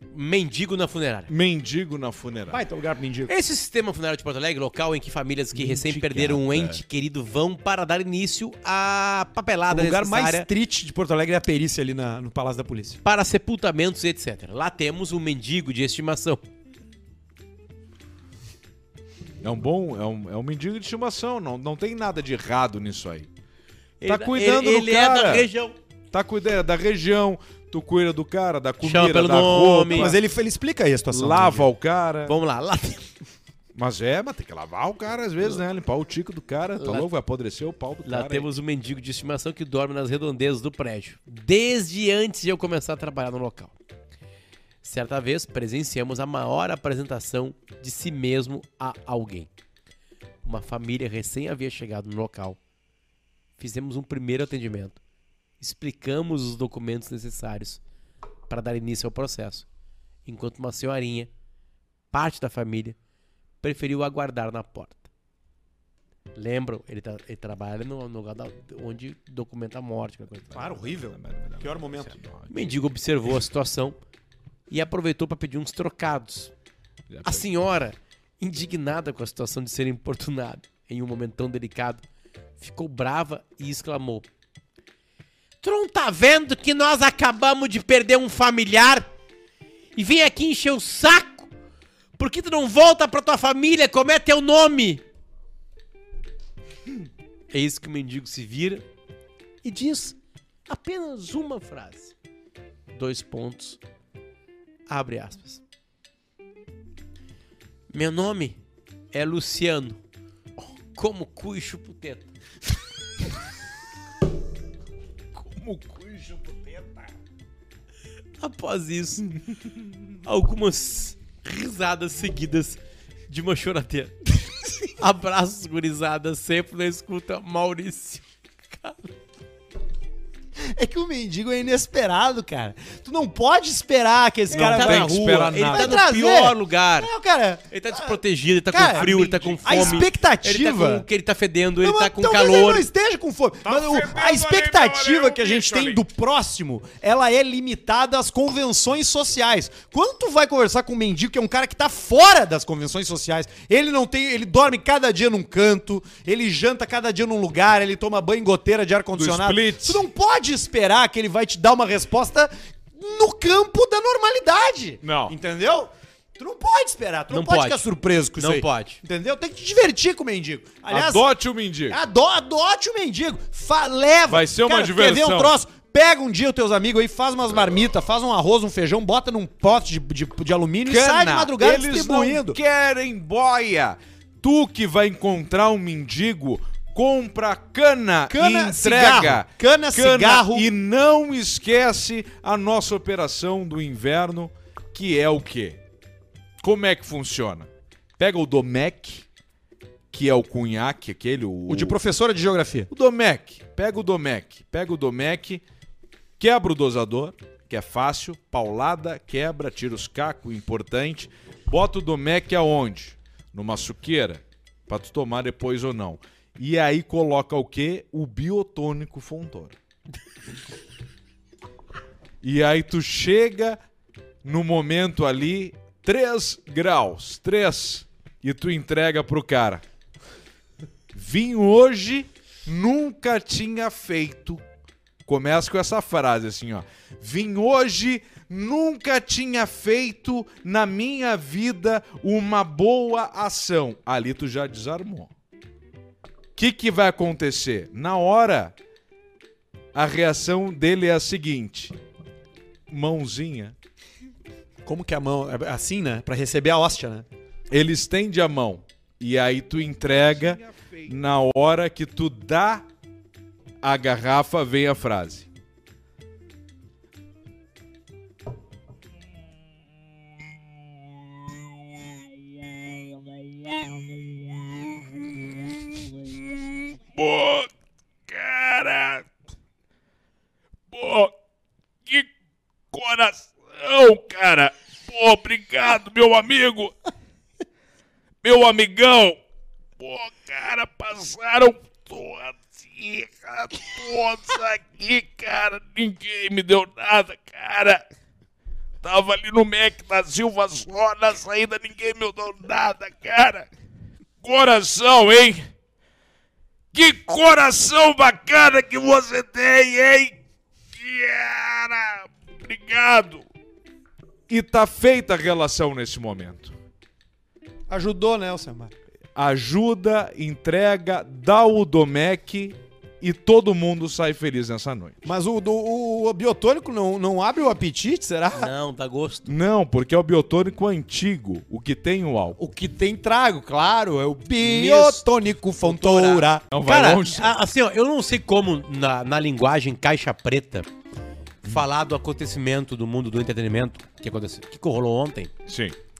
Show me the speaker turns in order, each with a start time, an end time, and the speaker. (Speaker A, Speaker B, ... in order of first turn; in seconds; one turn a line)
Speaker A: 0.1-1.3
Speaker B: 1.3-2.6
Speaker C: 2.5-3.3
Speaker A: 3.3-10.5
Speaker B: 5.5-6.8
Speaker C: 9.7-13.0
Speaker A: 13.0-16.4
Speaker B: 19.4-23.3
Speaker A: 24.0-25.8
Speaker B: 24.1-25.5
Speaker B: 26.1-30.2
Speaker A: 28.8-30.2
Speaker C: 29.9-31.7
Speaker B: 31.1-32.4
Speaker A: 32.3-33.1
Speaker B: 33.8-38.5
Speaker A: 36.8-37.1
Speaker A: 38.0-43.7
Speaker A: 44.8-49.5
Speaker A: 50.5-52.6
Speaker A: 53.6-55.0
Speaker A: 55.6-57.8
Speaker A: 58.5-59.6
Speaker A: 60.3-61.3
Speaker A: 62.1-63.0
Speaker A: 63.6-65.0
Speaker A: 66.3-70.6
Speaker C: 70.5-72.2
Speaker B: 70.5-72.9
Speaker A: 72.5-74.0
Speaker A: 74.7-76.5
Speaker B: 77.1-77.5
Speaker A: 77.2-82.0
Speaker A: 82.6-84.3
Speaker A: 85.6-89.1
Speaker A: 90.0-91.5
Speaker A: 92.2-95.0
Speaker A: 97.5-98.8
Speaker A: 99.6-100.2
Speaker A: 100.7-102.1
Speaker A: 102.9-103.8
Speaker A: 104.9-105.6
Speaker A: 107.9-108.6
Speaker A: 109.1-110.0
Speaker A: 111.0-112.3
Speaker B: 115.4-117.1
Speaker A: 118.4-119.4
Speaker A: 120.2-124.3
Speaker A: 124.8-129.1
Speaker C: 130.6-138.2
Speaker A: 134.5-137.1
Speaker B: 134.5-136.0
Speaker A: 137.7-142.9
Speaker C: 138.7-141.1
Speaker B: 138.9-140.1
Speaker C: 141.8-171.3
Speaker B: 143.6-146.0
Speaker B: 159.1-160.1
Speaker B: 165.0-165.3
Speaker A: 167.3-169.0
Speaker B: 170.9-172.0
Speaker C: 171.9-182.6
Speaker B: 174.3-175.6
Speaker B: 180.9-195.8
Speaker C: 188.3-190.7
Speaker B: 196.6-199.2
Speaker B: 200.1-202.0
Speaker C: 201.7-202.9
Speaker B: 202.9-205.6
Speaker B: 206.4-219.8
Speaker B: 222.4-223.8
Speaker B: 224.4-229.8
Speaker B: 231.1-234.6
Speaker B: 235.3-245.3
Speaker B: 246.6-248.8
Speaker B: 249.9-251.9
Speaker B: 252.9-253.8
Speaker C: 254.8-257.3
Speaker B: 257.7-262.9
Speaker B: 263.8-265.5
Speaker B: 274.6-277.7
Speaker B: 278.3-279.3
Speaker B: 280.9-281.3
Speaker B: 282.9-286.9
Speaker B: 288.4-289.4
Speaker B: 290.0-298.1
Speaker B: 299.0-303.7
Speaker B: 304.4-305.7
Speaker B: 306.9-310.4
Speaker B: 311.0-313.4
Speaker B: 314.5-316.8
Speaker C: 317.9-318.9
Speaker B: 319.4-325.2
Speaker C: 325.2-328.7
Speaker A: 328.5-329.5
Speaker B: 329.5-332.6
Speaker C: 332.6-336.6
Speaker A: 334.6-335.2
Speaker A: 335.8-340.9
Speaker B: 336.7-337.6
Speaker A: 341.6-345.5
Speaker B: 345.7-346.0